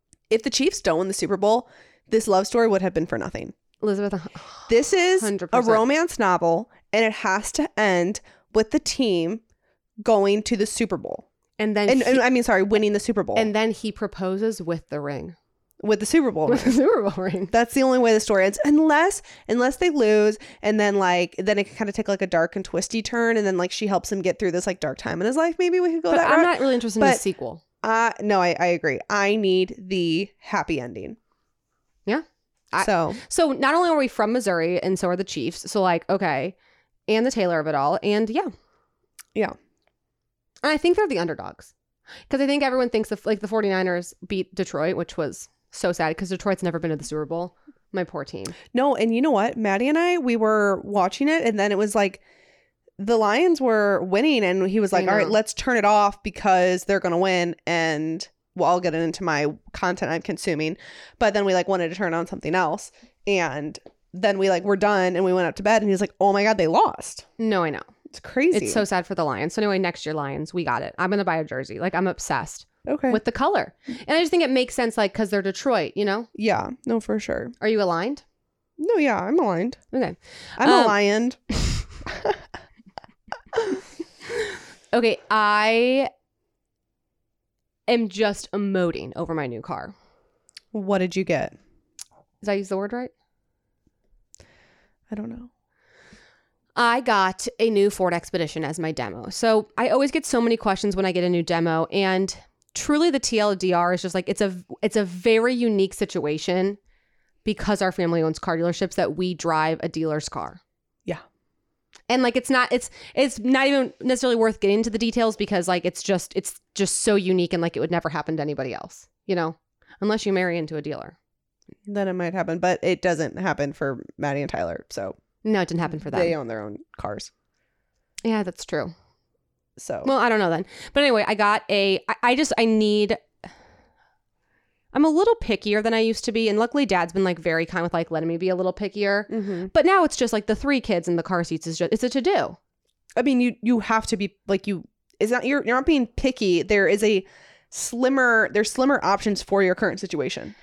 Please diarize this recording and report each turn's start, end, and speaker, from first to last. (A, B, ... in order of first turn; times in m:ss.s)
0:00.3-0:03.6 A
0:03.8-0:05.9 B
0:04.7-0:09.4 A
0:10.0-0:11.2 A
0:11.6-0:12.2 B
0:11.9-0:13.5 A
0:13.4-0:15.4 B
0:15.8-0:16.8 A
0:16.5-0:17.5 B
0:17.5-0:27.2 A
0:26.1-0:27.6 B
0:27.8-0:31.2 A
0:32.1-0:36.6 B
0:32.8-0:33.2 A
0:37.1-0:38.5 B
0:40.6-0:41.7 B
0:42.3-0:48.6 B
0:48.7-0:52.2 A
0:53.0-1:07.3 A
0:54.9-0:55.4 B
1:07.4-1:07.9 B
1:08.1-1:08.8 A
1:08.5-1:16.3 B
1:12.9-1:13.2 A
1:16.4-1:17.6 A
1:17.6-1:18.2 B
1:18.8-1:19.8 A
1:19.9-1:21.0 B
1:20.6-1:22.4 A
1:24.9-1:26.1 B
1:27.9-1:29.9 B
1:30.7-1:31.6 A
1:32.4-1:33.1 B
1:35.1-1:35.5 A
1:36.8-1:46.8 B
1:47.4-1:50.6 B
1:52.1-2:01.2 B
2:01.9-2:05.2 A
2:05.4-2:06.4 B
2:06.0-2:07.3 A
2:08.2-2:08.9 B
2:09.8-2:10.1 A
2:10.0-2:13.2 B
2:14.9-2:22.6 B
2:19.3-2:19.7 A
2:23.2-2:30.5 A